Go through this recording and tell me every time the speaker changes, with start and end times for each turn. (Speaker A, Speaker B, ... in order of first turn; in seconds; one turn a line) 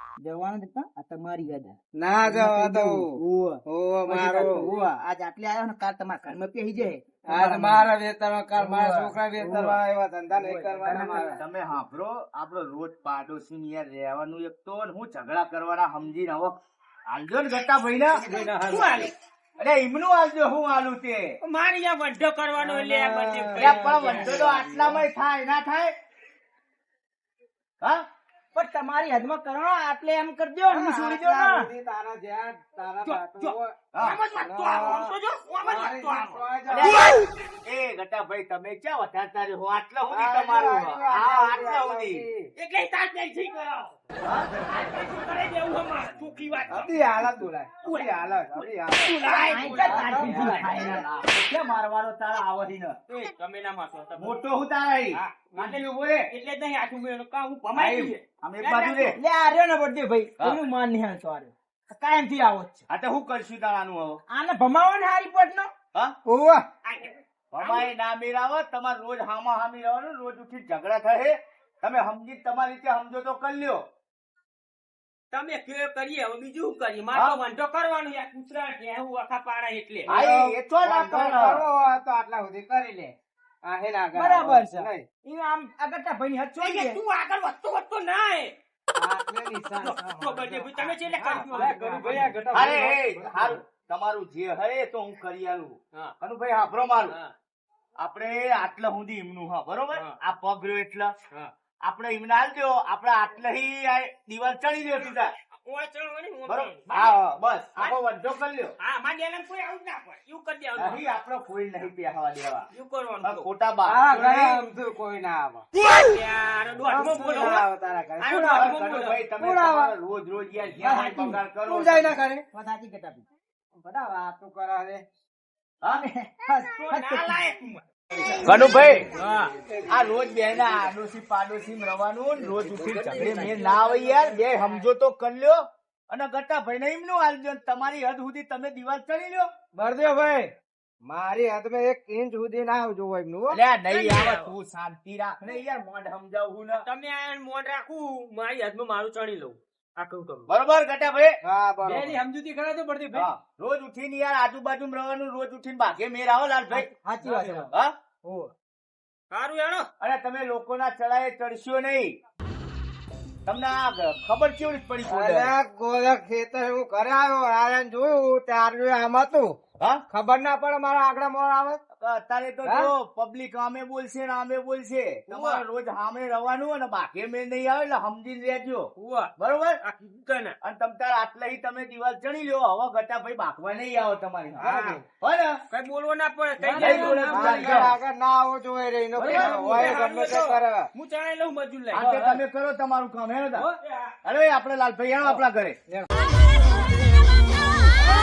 Speaker A: 0.2-7.9
Speaker B: 2.0-3.1
Speaker B: 3.7-4.7
Speaker B: 7.3-11.4
Speaker A: 8.6-9.2
Speaker C: 9.4-9.8
Speaker A: 10.3-11.4
Speaker C: 11.3-16.5
Speaker C: 17.1-18.3
Speaker B: 18.1-19.1
Speaker D: 18.5-19.1
Speaker C: 19.6-21.3
Speaker D: 21.4-24.4
Speaker B: 22.6-25.0
Speaker C: 23.6-25.9
Speaker A: 28.5-31.7
Speaker B: 30.7-33.8
Speaker D: 33.0-37.1
Speaker C: 33.9-34.2
Speaker B: 34.4-37.0
Speaker C: 36.7-42.2
Speaker B: 40.1-42.5
Speaker D: 42.6-44.0
Speaker C: 44.2-44.5
Speaker D: 44.6-50.6
Speaker B: 46.7-51.0
Speaker A: 49.4-51.0
Speaker C: 50.2-53.0
Speaker D: 53.1-54.4
Speaker C: 54.2-56.2
Speaker D: 55.1-59.2
Speaker C: 57.7-59.2
Speaker A: 59.1-62.9
Speaker C: 62.9-64.2
Speaker A: 64.3-65.7
Speaker A: 66.3-66.6
Speaker D: 66.8-67.9
Speaker C: 67.5-73.8
Speaker D: 75.3-80.1
Speaker B: 80.1-83.2
Speaker C: 80.1-81.6
Speaker B: 83.7-85.1
Speaker A: 84.2-87.0
Speaker D: 86.6-88.5
Speaker B: 89.0-93.6
Speaker D: 89.8-92.7
Speaker C: 92.5-97.2
Speaker D: 97.1-97.3
Speaker C: 98.0-101.1
Speaker C: 101.8-105.3
Speaker D: 105.7-107.2
Speaker C: 106.5-108.7
Speaker D: 108.8-111.0
Speaker C: 110.8-112.7
Speaker D: 112.7-113.5
Speaker C: 113.2-114.6
Speaker B: 113.9-115.7
Speaker D: 115.8-117.7
Speaker B: 116.9-118.7
Speaker D: 118.2-119.2
Speaker C: 118.3-122.2
Speaker B: 119.4-119.9
Speaker A: 120.8-121.4
Speaker B: 121.7-122.5
Speaker A: 122.5-123.3
Speaker B: 123.8-125.0
Speaker A: 125.9-127.4
Speaker D: 126.7-127.8
Speaker C: 128.4-129.1
Speaker D: 129.1-129.5
Speaker C: 129.9-139.5
Speaker A: 132.6-134.9
Speaker B: 139.7-140.5
Speaker B: 141.1-143.6
Speaker C: 143.5-146.8
Speaker D: 143.9-144.6
Speaker D: 146.8-150.5
Speaker C: 150.5-151.4
Speaker B: 151.4-152.2
Speaker A: 152.3-153.2
Speaker C: 153.1-156.9
Speaker A: 156.7-157.7
Speaker C: 157.7-157.9
Speaker D: 159.3-159.9
Speaker C: 160.0-162.2
Speaker C: 163.4-165.5
Speaker B: 165.1-171.8
Speaker C: 172.0-179.8
Speaker B: 172.7-172.9
Speaker D: 175.3-175.6
Speaker D: 179.0-180.6
Speaker C: 180.6-185.6
Speaker D: 184.6-185.0
Speaker B: 184.6-185.1
Speaker D: 185.7-187.9
Speaker C: 186.7-187.9
Speaker B: 186.7-190.9
Speaker D: 189.2-192.4
Speaker C: 189.2-190.0
Speaker C: 191.9-193.7
Speaker D: 193.6-194.1
Speaker C: 194.2-195.8
Speaker B: 195.2-196.1